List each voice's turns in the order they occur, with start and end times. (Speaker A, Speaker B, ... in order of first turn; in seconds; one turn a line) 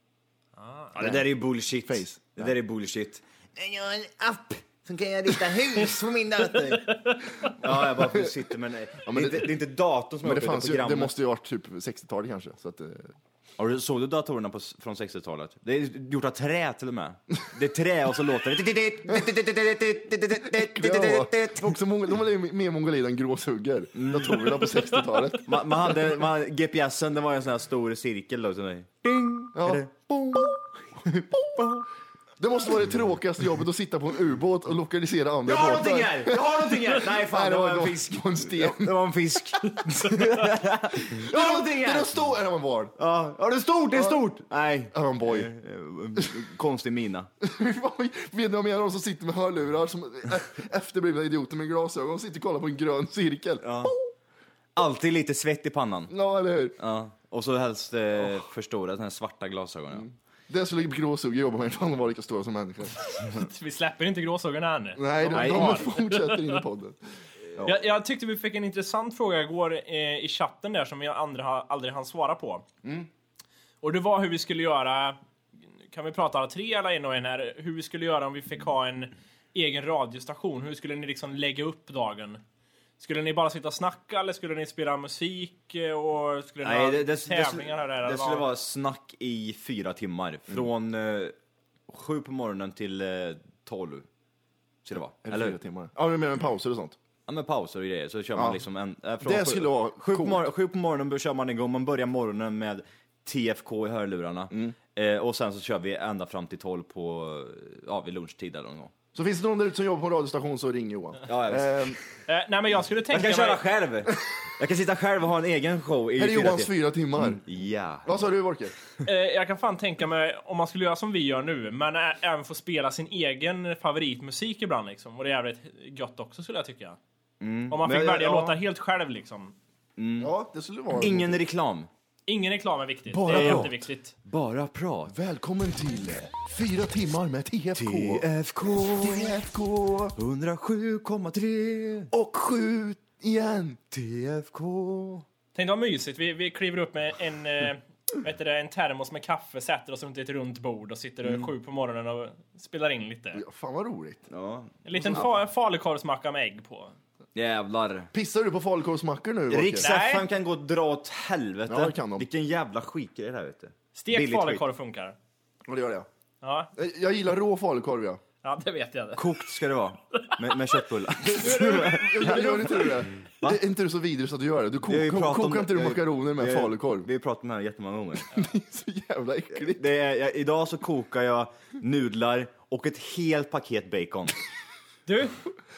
Speaker A: 0.6-1.0
Speaker B: 0.9-7.0
Speaker C: 1.0-1.2
Speaker C: 1.9-2.5
Speaker A: 6.9-7.5
Speaker B: 7.5-11.1
Speaker C: 7.9-8.3
Speaker C: 9.0-9.5
Speaker C: 10.2-13.1
Speaker B: 13.6-21.8
Speaker C: 20.5-25.7
Speaker B: 23.9-24.6
Speaker B: 25.4-31.9
Speaker C: 29.5-29.8
Speaker C: 32.4-39.0
Speaker B: 35.4-42.1
Speaker A: 39.6-40.5
Speaker C: 41.1-43.0
Speaker B: 43.0-47.3
Speaker C: 43.9-44.2
Speaker C: 44.9-45.5
Speaker C: 47.4-53.9
Speaker B: 53.6-54.0
Speaker B: 54.8-56.1
Speaker C: 56.1-56.8
Speaker B: 56.8-60.1
Speaker C: 59.9-63.0
Speaker A: 63.2-66.6
Speaker C: 65.0-67.0
Speaker B: 65.3-65.9
Speaker A: 67.6-72.6
Speaker C: 72.8-73.1
Speaker A: 73.8-75.2
Speaker A: 75.9-82.4
Speaker A: 83.0-88.5
Speaker B: 86.6-91.3
Speaker B: 91.9-94.0
Speaker B: 94.8-95.5
Speaker C: 95.2-97.0
Speaker B: 97.3-108.9
Speaker C: 98.3-98.6
Speaker C: 99.2-100.4
Speaker C: 109.1-112.0
Speaker B: 111.3-112.0
Speaker A: 112.3-113.6
Speaker B: 113.1-118.2
Speaker C: 116.2-117.4
Speaker C: 118.0-118.7
Speaker A: 119.0-127.0
Speaker B: 127.4-128.6
Speaker A: 127.7-129.5
Speaker B: 130.0-130.3
Speaker C: 130.2-131.4
Speaker B: 131.0-131.9
Speaker A: 132.3-134.1
Speaker C: 133.1-133.7
Speaker B: 133.2-135.1
Speaker C: 135.1-138.2
Speaker B: 137.8-139.4
Speaker C: 138.9-140.2
Speaker B: 140.2-142.1
Speaker C: 142.1-143.8
Speaker B: 143.9-145.2
Speaker A: 145.5-153.4
Speaker C: 153.3-154.2
Speaker B: 154.3-155.2
Speaker A: 154.8-156.9
Speaker C: 155.0-155.2
Speaker B: 157.3-158.1
Speaker C: 158.1-159.9
Speaker B: 159.5-164.6
Speaker A: 159.8-160.2
Speaker C: 161.7-162.2
Speaker A: 163.9-165.2
Speaker C: 165.7-166.1
Speaker A: 166.4-166.7
Speaker C: 166.7-168.2
Speaker A: 168.4-169.2
Speaker B: 169.2-173.6
Speaker A: 170.2-170.5
Speaker A: 171.3-172.6
Speaker C: 171.4-177.1
Speaker B: 174.9-178.3
Speaker C: 178.3-179.8
Speaker B: 179.6-184.3
Speaker A: 185.1-185.4